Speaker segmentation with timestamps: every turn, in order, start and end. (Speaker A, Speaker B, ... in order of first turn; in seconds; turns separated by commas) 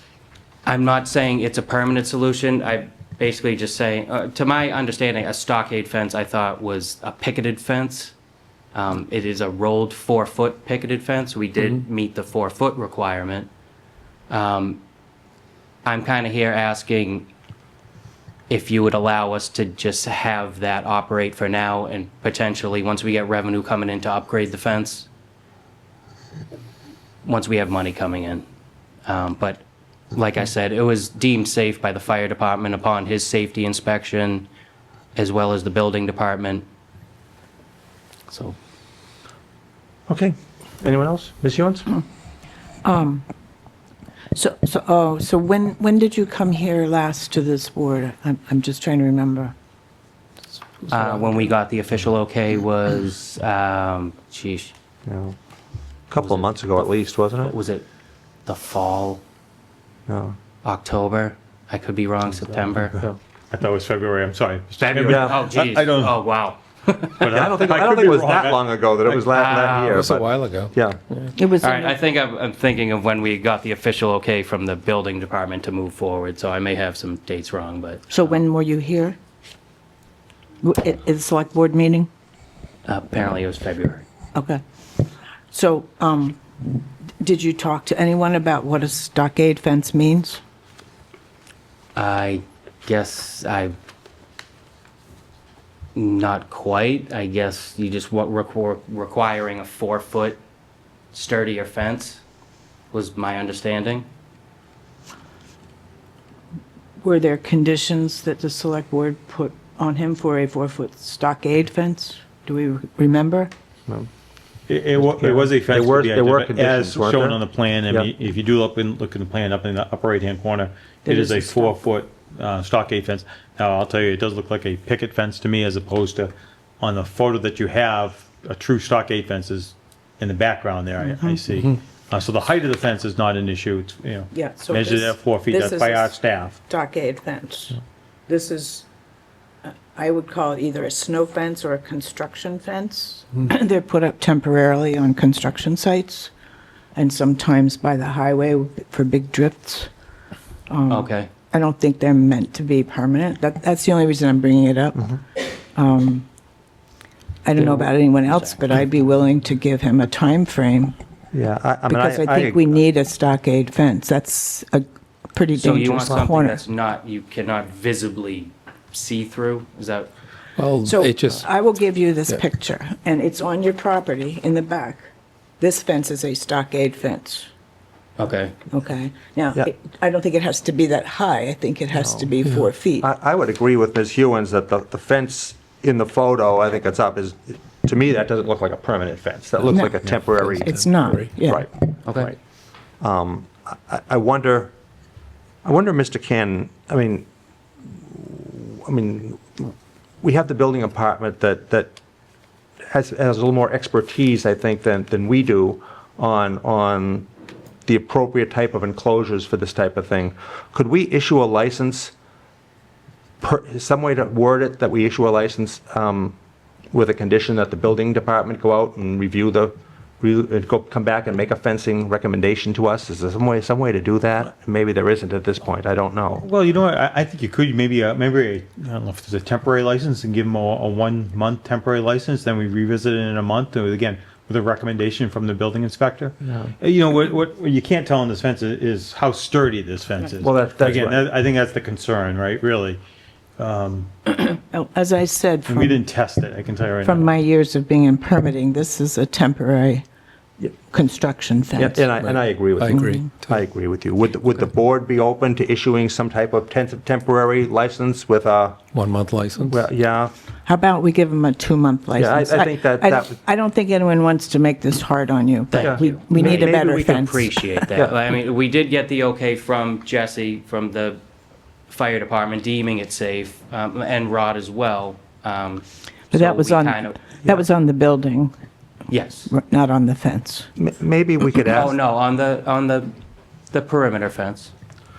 Speaker A: 0.6-8.1, Speaker A: 8.7-13.5, Speaker A: 14.3-14.8, Speaker A: 15.8-17.3, Speaker A: 18.5-25.1, Speaker A: 27.2-28.4, Speaker A: 29.0-29.6, Speaker A: 30.1-34.5, Speaker A: 35.1-36.6, Speaker A: 38.3-38.5, Speaker B: 40.1-41.9, Speaker C: 42.8-43.2, Speaker C: 44.3-49.5, Speaker A: 50.9-54.7, Speaker B: 55.1-55.4, Speaker B: 56.1-57.5, Speaker A: 56.2-56.9, Speaker A: 57.4-57.8, Speaker A: 58.5-59.2, Speaker B: 60.1-60.4, Speaker A: 60.6-63.0, Speaker D: 63.5-66.2, Speaker A: 64.8-67.5, Speaker B: 65.1-65.4, Speaker D: 67.2-69.2, Speaker B: 67.3-71.0, Speaker A: 69.2-70.1, Speaker E: 69.9-71.3, Speaker C: 71.3-72.0, Speaker A: 71.5-78.4, Speaker C: 78.1-79.2, Speaker C: 80.6-82.1, Speaker A: 82.8-84.0, Speaker C: 84.3-84.6, Speaker C: 85.5-86.4, Speaker C: 87.2-90.4, Speaker A: 92.0-93.8, Speaker A: 95.9-100.4, Speaker A: 101.1-102.2, Speaker A: 102.9-104.1, Speaker C: 107.0-113.5, Speaker D: 114.7-136.6, Speaker B: 115.0-118.1, Speaker C: 121.0-121.8, Speaker C: 131.0-131.4, Speaker C: 134.3-138.8, Speaker C: 139.6-146.3, Speaker C: 146.9-149.9, Speaker C: 150.7-156.2, Speaker A: 150.9-151.3, Speaker C: 157.4-160.9, Speaker A: 157.5-158.6, Speaker B: 161.3-162.8, Speaker C: 161.9-166.6, Speaker A: 165.6-170.1, Speaker E: 170.6-171.5, Speaker C: 170.8-175.1, Speaker C: 175.6-177.5, Speaker A: 178.2-178.6, Speaker C: 178.7-183.1, Speaker B: 182.0-182.3, Speaker B: 183.0-190.7, Speaker C: 189.7-190.1, Speaker E: 190.2-191.3, Speaker C: 190.6-191.7, Speaker B: 191.4-192.3, Speaker A: 192.0-192.3, Speaker B: 193.0-194.7, Speaker B: 195.6-197.3, Speaker B: 197.9-201.9, Speaker B: 202.9-207.3, Speaker B: 207.8-212.1, Speaker B: 213.4-216.3, Speaker B: 216.9-226.4, Speaker D: 226.4-243.0, Speaker B: 240.4-241.2, Speaker D: 243.6-244.1, Speaker C: 244.2-246.0, Speaker D: 245.7-247.3, Speaker C: 247.0-250.0, Speaker C: 250.9-252.1, Speaker B: 251.7-258.9, Speaker E: 252.2-253.6, Speaker C: 252.8-253.2, Speaker E: 258.9-259.9, Speaker B: 259.7-260.3, Speaker C: 260.6-267.9, Speaker B: 262.1-263.4, Speaker A: 265.7-271.2, Speaker B: 265.8-268.1, Speaker A: 271.9-277.6, Speaker C: 276.3-278.5, Speaker A: 279.1-279.5, Speaker C: 279.5-280.7, Speaker B: 280.8-281.9, Speaker A: 281.7-283.1, Speaker A: 283.7-284.7